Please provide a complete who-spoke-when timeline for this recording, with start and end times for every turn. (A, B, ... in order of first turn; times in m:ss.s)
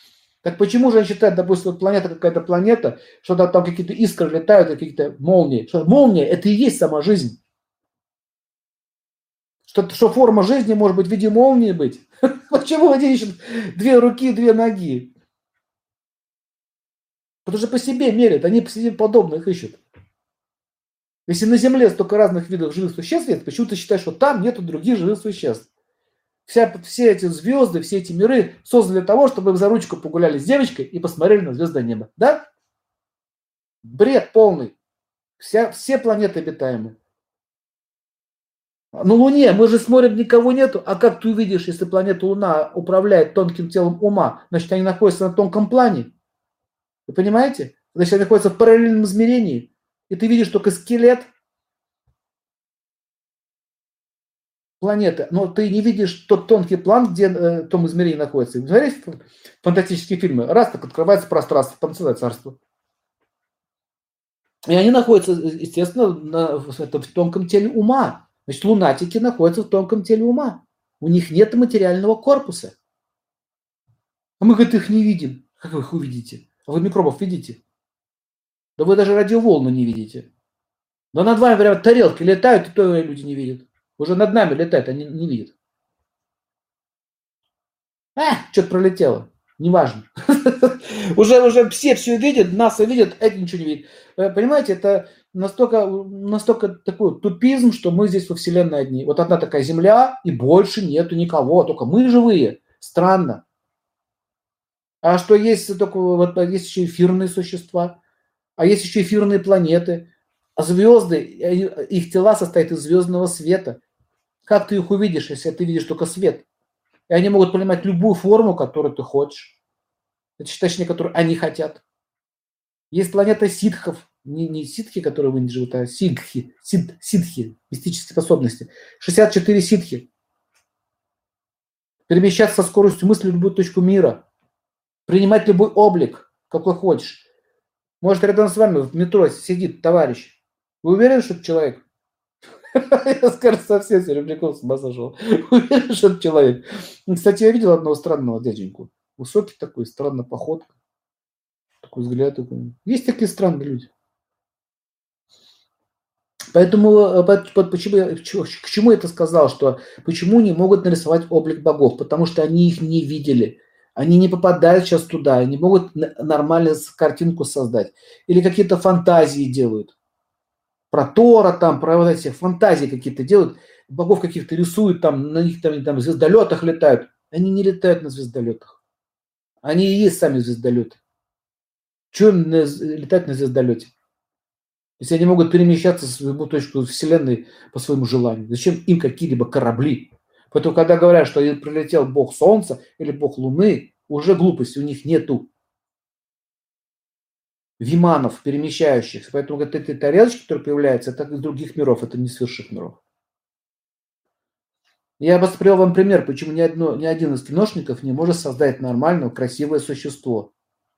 0:00.4-0:07.4 A
0:09.7-0:15.1 A
0:17.4-0:19.8 A
0:21.3-0:25.7 A
0:26.5-0:32.5 A
0:33.8-0:34.8 A
0:35.4-0:37.0 A
0:39.0-0:46.1 A
0:47.1-0:51.3 A
0:54.8-1:02.6 A
1:04.7-1:12.8 A
1:14.4-1:17.6 A
1:18.8-1:20.3 A
1:21.1-1:25.6 A
1:28.2-1:43.4 A
1:45.0-1:48.0 A
1:48.6-1:53.8 A
1:54.5-1:56.5 A
1:57.1-1:59.6 A
2:00.4-2:01.8 A
2:02.9-2:10.1 A
2:12.1-2:14.2 A
2:15.1-2:17.3 A
2:18.0-2:21.8 A
2:22.7-2:30.7 A
2:31.8-2:33.9 A
2:36.5-2:50.0 A
2:50.9-2:58.8 A
2:59.6-3:01.0 A
3:02.1-3:03.9 A
3:05.0-3:15.5 A
3:17.8-3:23.0 A
3:25.2-3:30.5 A